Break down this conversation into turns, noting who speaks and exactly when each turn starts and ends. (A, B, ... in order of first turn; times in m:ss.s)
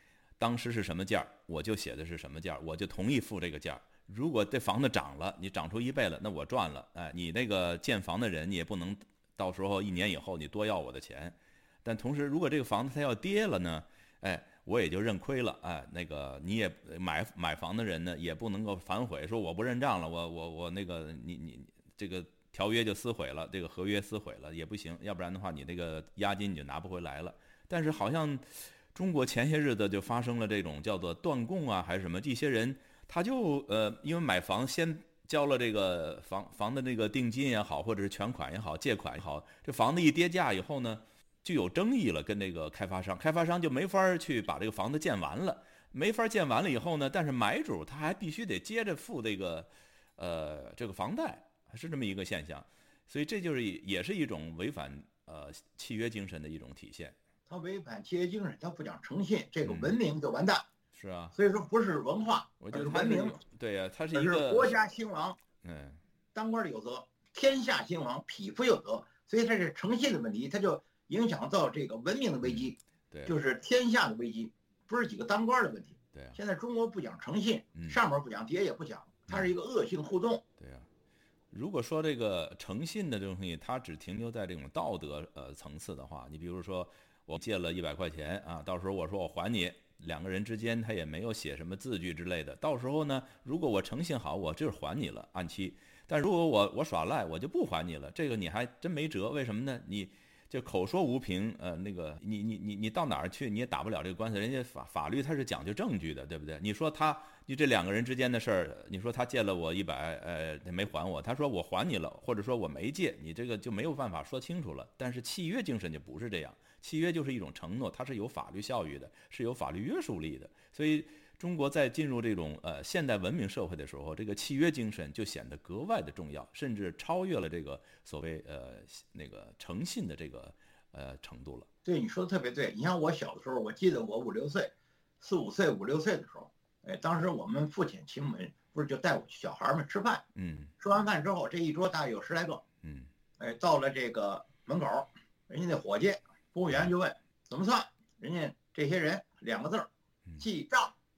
0:00.4-0:57.2 A
0:57.5-1:00.7 B
0:59.6-1:00.0 A
1:00.9-1:01.4 A
1:01.4-1:03.4 B
1:02.6-1:04.8 A
1:04.1-1:05.4 B
1:05.6-1:06.0 A
1:06.4-1:20.4 B
1:12.4-1:13.4 A
1:16.1-1:16.4 A
1:20.6-1:20.9 A
1:21.5-2:11.7 A
2:11.8-2:20.2 B
2:20.4-2:20.7 A
2:20.8-2:22.6 B
2:22.8-2:23.1 A
2:23.4-2:30.9 B